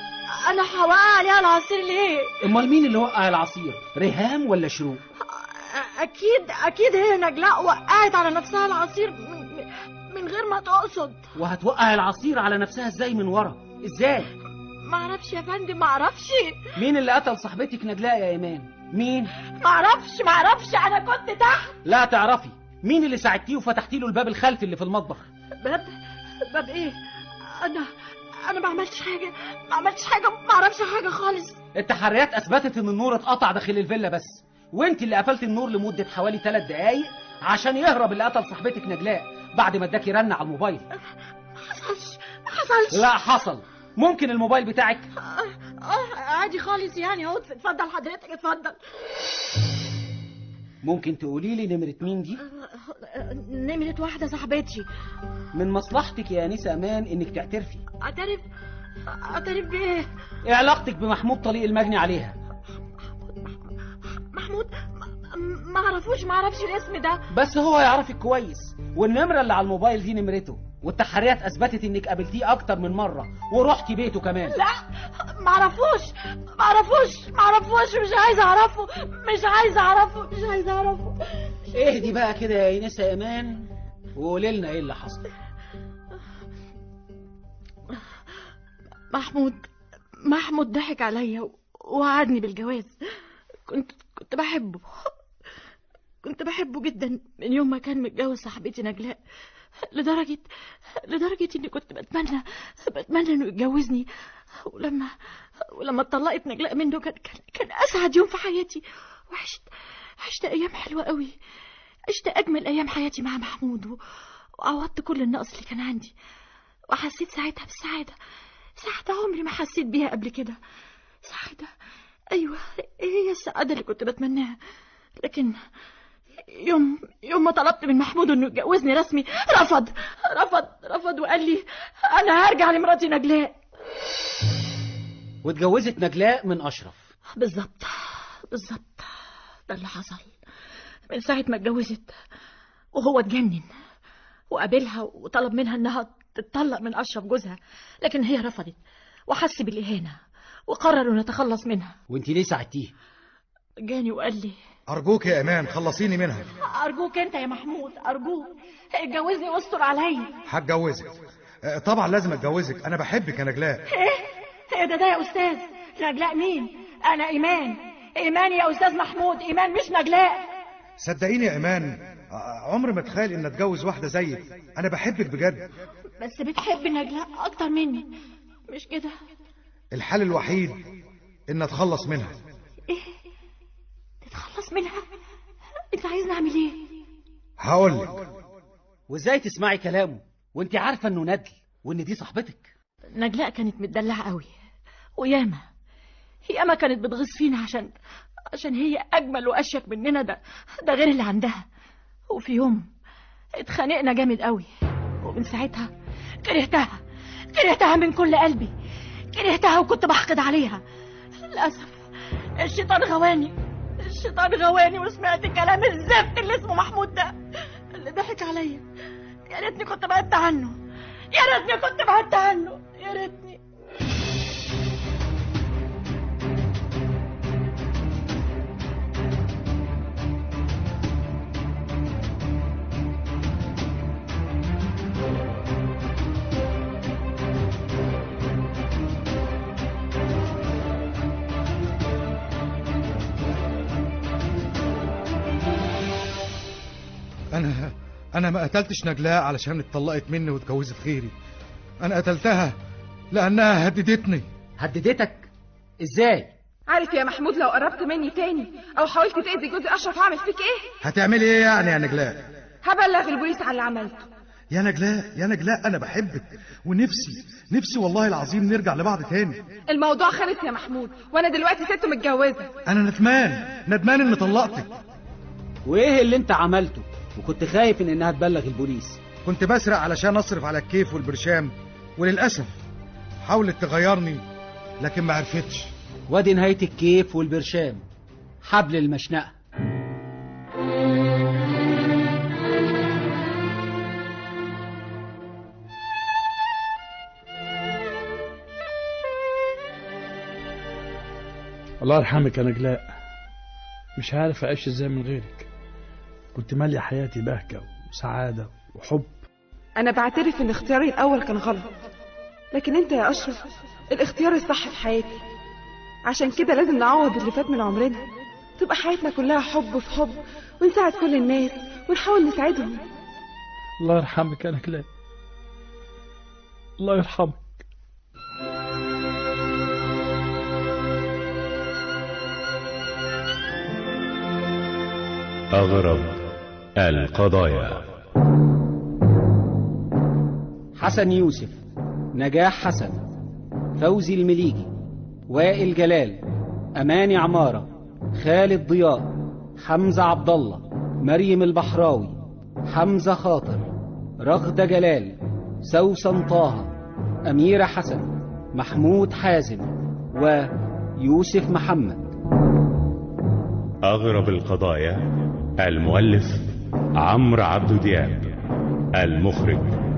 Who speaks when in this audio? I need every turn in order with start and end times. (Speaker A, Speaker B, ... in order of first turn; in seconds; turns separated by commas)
Speaker A: 0.3-2.3, Speaker B: 2.4-5.0, Speaker A: 5.2-11.2, Speaker B: 11.3-14.3, Speaker A: 14.8-16.6, Speaker B: 16.8-19.3, Speaker A: 19.6-21.7, Speaker B: 21.8-25.3, Speaker A: 25.6-25.9, Speaker A: 26.4-26.9, Speaker A: 27.5-27.9, Speaker A: 28.4-31.6, Speaker B: 31.7-40.8, Speaker A: 41.6-43.1, Speaker B: 42.9-45.1, Speaker A: 45.2-48.8, Speaker B: 50.8-52.4, Speaker A: 52.4-54.9, Speaker B: 55.5-57.8, Speaker A: 58.0-58.4, Speaker A: 59.1-60.1, Speaker B: 60.5-62.4, Speaker A: 63.2-63.5, Speaker A: 64.3-67.2, Speaker B: 67.3-74.6, Speaker A: 74.5-81.2, Speaker B: 81.7-85.2, Speaker A: 89.1-89.7, Speaker A: 90.2-92.9, Speaker A: 93.7-95.1, Speaker A: 96.2-99.2, Speaker A: 99.8-100.4, Speaker A: 101.0-104.1, Speaker A: 104.6-105.1, Speaker A: 105.7-109.6, Speaker A: 110.2-111.3, Speaker A: 112.1-114.0, Speaker A: 114.6-116.1, Speaker A: 116.9-118.1, Speaker A: 118.8-120.6, Speaker A: 121.2-121.7, Speaker A: 122.3-124.6, Speaker A: 125.2-125.6, Speaker A: 126.5-133.6, Speaker B: 135.4-137.1, Speaker A: 137.3-139.1, Speaker A: 139.7-140.3, Speaker A: 141.1-142.1, Speaker A: 142.9-143.7, Speaker A: 144.5-151.9, Speaker B: 152.1-152.9, Speaker A: 153.8-154.6, Speaker C: 154.9-156.4, Speaker A: 156.6-160.3, Speaker C: 160.5-163.8, Speaker A: 163.9-170.4, Speaker C: 171.0-175.7, Speaker A: 176.2-178.1, Speaker A: 178.7-179.1, Speaker C: 179.9-180.8, Speaker C: 181.5-182.3, Speaker A: 184.2-185.0, Speaker A: 185.9-186.9, Speaker C: 187.6-188.3, Speaker B: 189.1-192.7, Speaker A: 193.1-194.5, Speaker A: 195.2-195.6, Speaker A: 196.5-197.9, Speaker A: 198.5-201.6, Speaker A: 202.3-202.9, Speaker A: 203.6-204.7, Speaker A: 205.2-205.9, Speaker A: 206.4-207.0, Speaker A: 207.5-208.7, Speaker A: 209.3-210.8, Speaker A: 211.5-212.0, Speaker A: 212.6-217.3, Speaker A: 217.9-218.8, Speaker A: 219.5-220.8, Speaker A: 221.3-223.6, Speaker C: 247.5-251.3, Speaker C: 252.0-252.8, Speaker C: 253.3-254.4, Speaker B: 254.8-255.5, Speaker B: 256.0-256.5, Speaker D: 256.9-260.9, Speaker C: 261.0-262.5, Speaker D: 262.8-264.3, Speaker C: 264.7-269.6, Speaker D: 269.9-272.7, Speaker C: 272.9-274.9, Speaker B: 275.8-279.2, Speaker C: 279.4-282.8, Speaker C: 283.4-284.4, Speaker C: 285.0-285.9, Speaker B: 286.3-288.0, Speaker B: 288.6-289.6, Speaker E: 302.0-303.1, Speaker E: 304.2-305.7, Speaker E: 306.5-309.4, Speaker D: 310.0-311.9, Speaker D: 312.7-313.6, Speaker D: 314.1-315.4, Speaker D: 316.3-318.2, Speaker D: 318.8-323.0, Speaker E: 324.0-325.1, Speaker E: 327.0-327.8, Speaker F: 335.7-336.4, Speaker F: 337.0-338.1, Speaker B: 341.0-341.8, Speaker B: 342.4-343.2, Speaker B: 344.0-344.9, Speaker B: 345.5-346.4, Speaker B: 347.0-352.4, Speaker B: 352.9-353.9, Speaker B: 354.4-356.9, Speaker B: 357.5-362.3, Speaker F: 364.1-365.2, Speaker F: 365.8-366.6, Speaker F: 367.2-368.5, Speaker F: 369.2-370.0